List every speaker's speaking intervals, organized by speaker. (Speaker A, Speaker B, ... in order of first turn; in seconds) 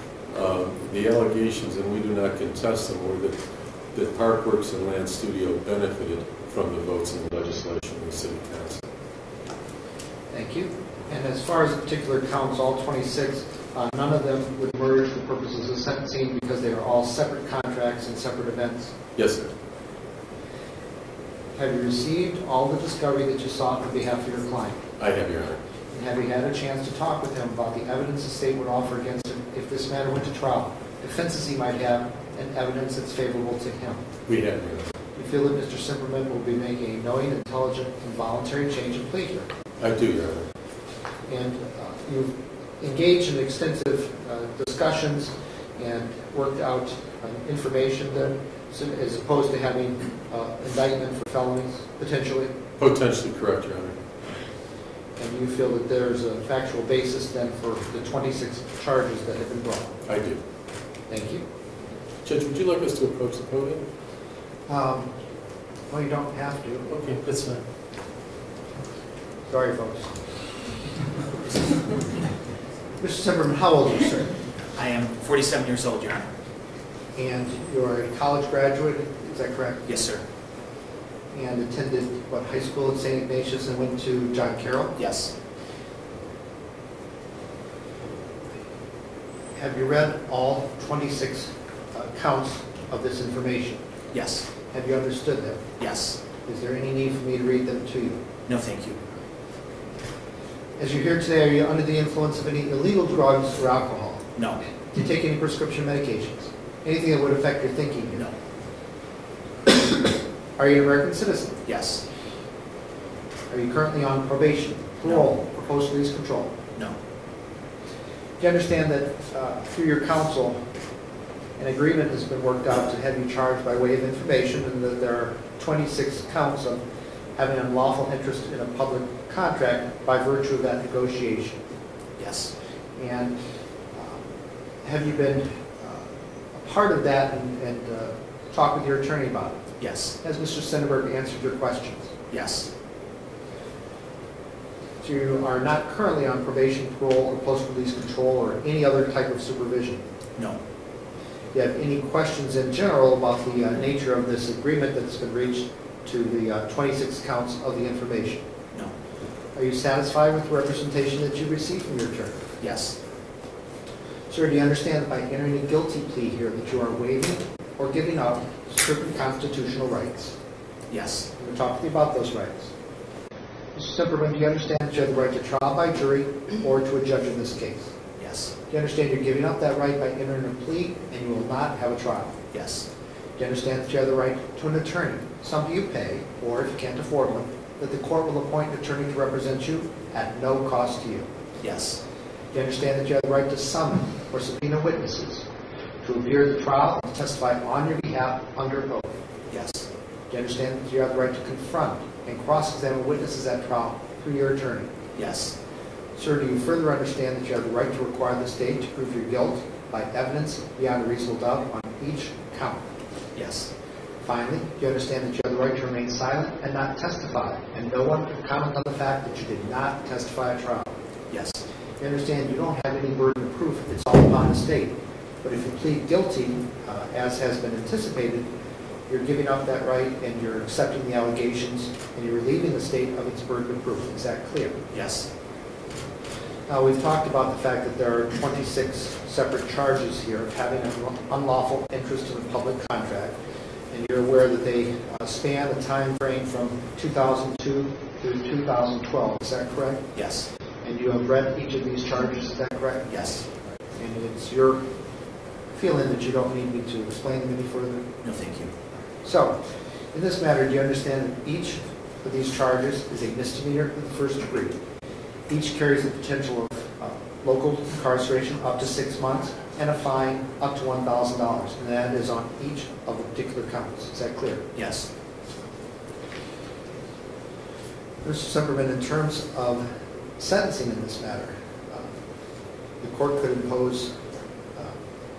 Speaker A: 0.3-3.4, 3.9-8.8, 19.2-19.5, 25.0-25.6, 34.3-34.9, 39.8-40.5, 52.8-54.0, 60.1-60.4, 62.2-63.8, 66.9-67.6
Speaker B: 10.3-19.0, 21.6-24.8, 25.9-34.0, 35.1-39.5, 41.3-52.5, 55.2-59.9, 61.1-61.4, 64.7-65.1, 65.9-66.9, 69.5-70.1, 73.0-74.3, 77.2-80.0, 81.3-85.0, 89.5-93.8, 94.7-95.7, 96.4-98.2, 100.8-104.3, 104.9-108.3, 110.6-111.6, 113.5-116.5, 118.4-120.6, 121.6-126.8, 127.4-131.6, 133.0-133.3, 133.9-134.2, 134.8-139.6, 140.2-142.1, 145.0-150.1, 151.5-158.5, 159.6-162.4, 164.3-170.4, 171.4-172.7, 173.8-177.9, 178.7-182.4, 183.4-191.3, 192.5-195.5, 196.0-199.2, 200.3-204.9, 206.2-212.9, 214.2-220.9, 222.0-228.5, 229.1-234.9, 236.7-243.4, 243.9-250.1, 250.8-253.1, 254.0-254.8, 255.7-258.1, 259.2-259.6, 260.1-264.8, 265.5-274.7, 278.2-279.9, 280.4-282.1, 283.0-284.1
Speaker C: 74.8-76.3, 79.9-80.2, 85.0-85.3, 94.1-94.5, 95.8-96.2, 98.5-99.0, 111.7-112.0, 132.2-132.5, 139.8-140.2, 142.3-142.7, 162.6-163.0, 170.9-171.3, 178.2-178.5, 182.5-182.9, 191.6-192.0, 199.5-199.9, 205.2-205.6, 213.3-213.7, 221.3-221.6, 234.9-235.3, 250.2-250.5, 253.1-253.4, 258.2-258.7, 274.8-275.1